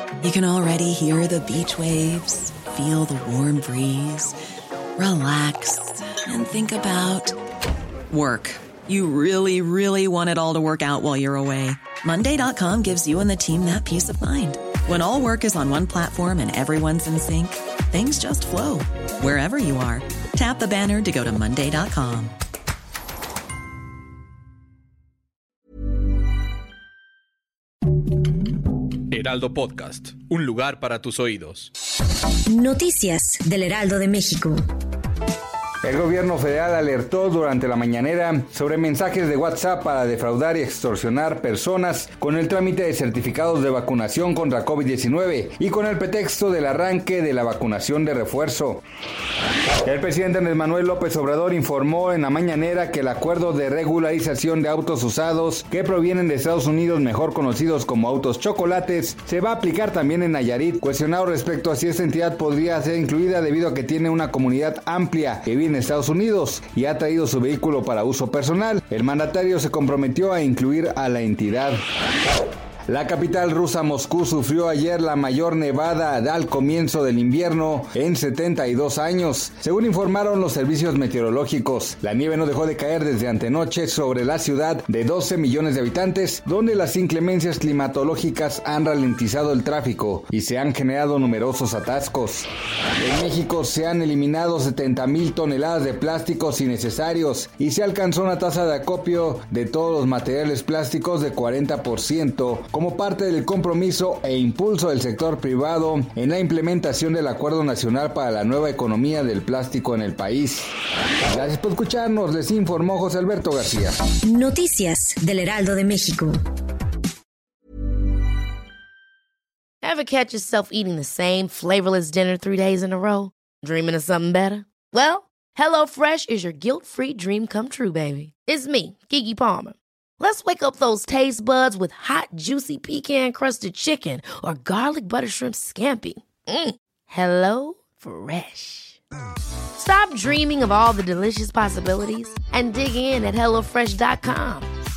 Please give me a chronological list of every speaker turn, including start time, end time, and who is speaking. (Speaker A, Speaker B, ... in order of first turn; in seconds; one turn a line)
Speaker A: 0.2-4.4
Speaker A: 5.0-7.4
Speaker A: 8.1-22.3
Speaker B: 29.1-31.7
Speaker C: 32.5-34.6
Speaker D: 35.8-48.8
Speaker D: 49.8-71.8
Speaker D: 72.9-110.7
Speaker D: 111.3-114.0
Speaker C: 114.2-116.4
Speaker E: 119.8-139.0
Speaker E: 139.8-144.7